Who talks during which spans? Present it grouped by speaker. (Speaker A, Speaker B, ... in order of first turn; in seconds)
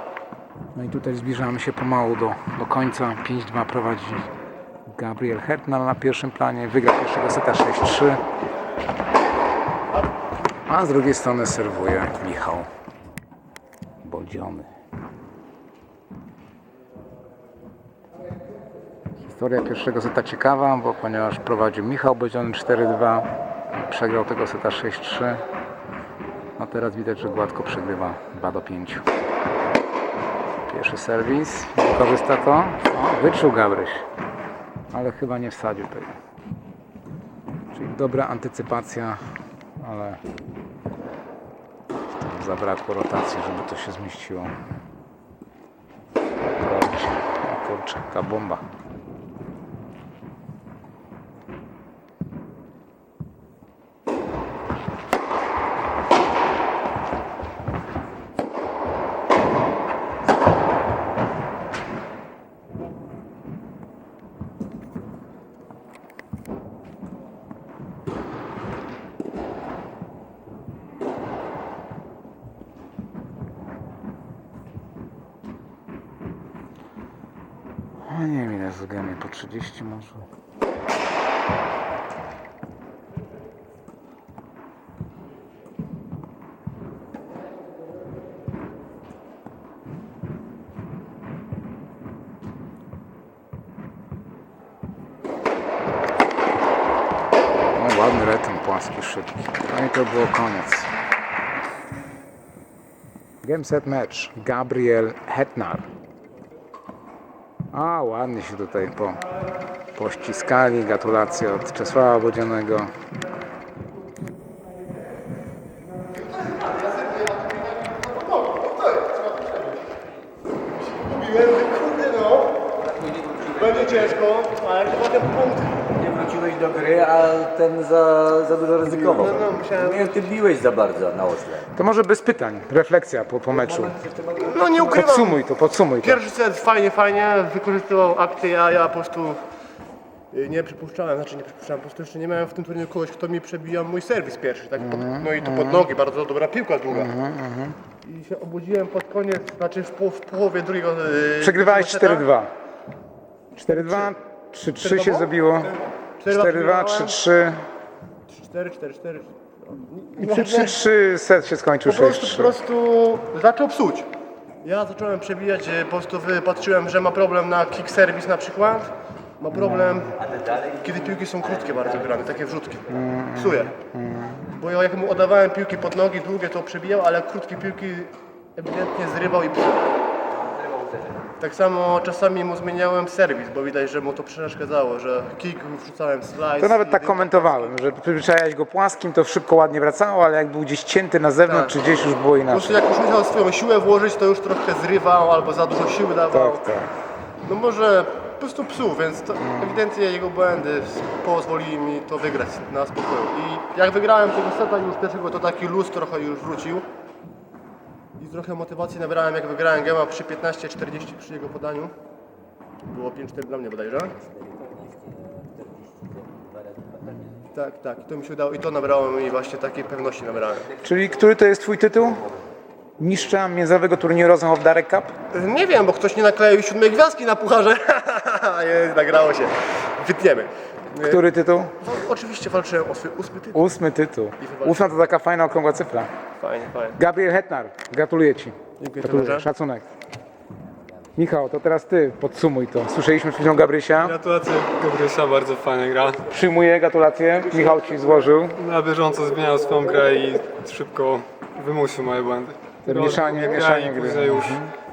Speaker A: 0.7-4.3, 4.9-8.2, 10.7-12.7, 14.0-14.7, 19.2-25.4, 26.6-29.0, 30.7-34.0, 34.9-36.2, 37.7-39.2, 39.8-40.2, 42.0-44.5, 46.5-48.6, 78.0-80.3, 97.7-100.9, 103.4-105.9, 107.7-109.2, 109.9-113.0, 131.7-133.9, 134.9-136.2, 144.8-145.9, 146.9-147.8, 151.4-152.5, 153.6-155.7, 156.3-157.6, 160.2-162.5, 169.6-170.0, 172.9-174.4, 186.6-192.8, 196.3-196.9, 199.4-199.7, 220.8-222.2, 223.0-225.1, 231.0-231.7, 233.5-236.1, 236.9-239.8, 241.2-244.2, 246.3-248.6, 252.8-254.7
Speaker B: 116.1-119.8, 120.7-122.6, 123.5-125.9, 128.8-130.2, 134.4-135.4, 136.0-139.4, 140.3-147.1, 148.0-152.3, 153.7-154.1, 154.8-157.2, 158.3-160.8, 161.8-164.1, 164.6-173.7, 174.4-179.9, 181.4-187.8, 191.4-191.8, 192.5-196.6, 197.4-206.8, 208.2-211.9, 212.9-214.2, 217.5-220.7, 225.3-231.2, 231.8-233.6, 234.4-234.9, 236.4-237.0, 238.8-239.5
Speaker C: 123.2-124.0, 126.0-131.7, 133.7-135.0, 180.7-181.0, 214.5-216.9
Speaker D: 244.0-246.2, 248.6-254.6